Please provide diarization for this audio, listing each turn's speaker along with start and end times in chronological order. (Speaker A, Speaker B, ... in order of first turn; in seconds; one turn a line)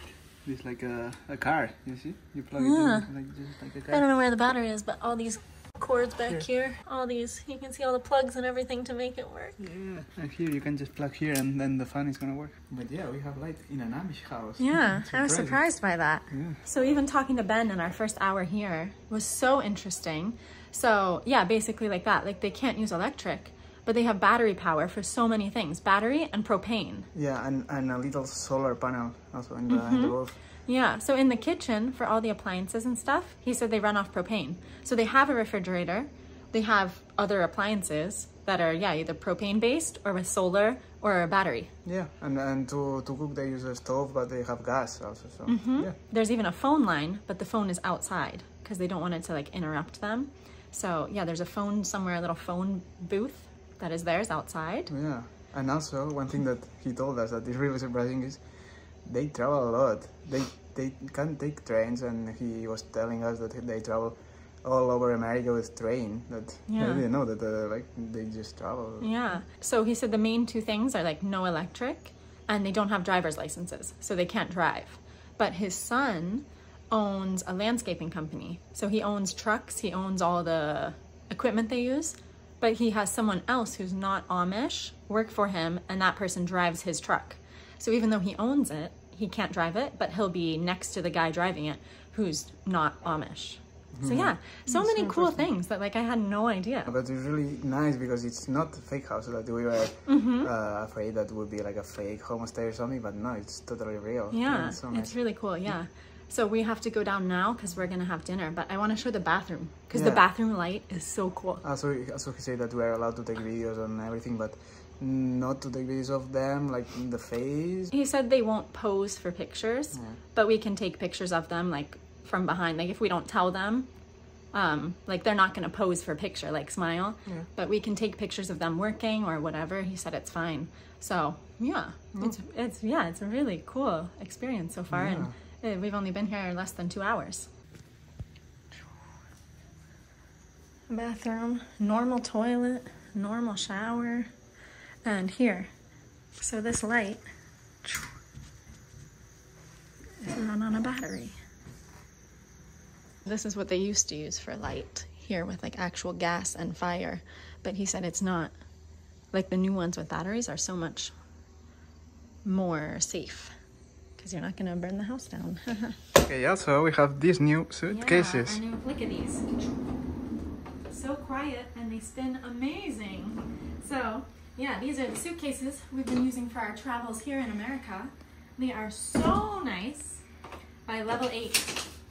Speaker A: 0.4-4.0
Speaker B: 2.6-3.1
Speaker B: 3.9-9.6
Speaker A: 9.6-15.6
Speaker B: 14.6-27.1
Speaker A: 16.3-16.6
Speaker A: 27.1-30.4
Speaker B: 29.7-41.7
Speaker A: 41.9-46.0
Speaker B: 45.5-54.9
Speaker A: 54.9-69.1
Speaker B: 66.7-67.0
Speaker B: 69.0-96.9
Speaker A: 93.9-95.5
Speaker A: 96.9-105.8
Speaker B: 100.1-100.5
Speaker B: 104.3-111.6
Speaker A: 109.9-110.2
Speaker A: 111.6-117.9
Speaker B: 117.9-123.9
Speaker A: 119.9-120.2
Speaker B: 124.5-137.5
Speaker A: 134.9-135.3
Speaker B: 140.9-144.3
Speaker B: 145.0-145.7
Speaker B: 146.4-147.2
Speaker B: 147.8-148.1
Speaker B: 150.2-151.4
Speaker B: 153.2-158.5
Speaker B: 159.3-161.1
Speaker B: 162.4-163.5
Speaker B: 164.2-166.0
Speaker A: 166.2-168.6
Speaker B: 167.9-169.7
Speaker B: 170.9-180.2
Speaker B: 180.9-181.8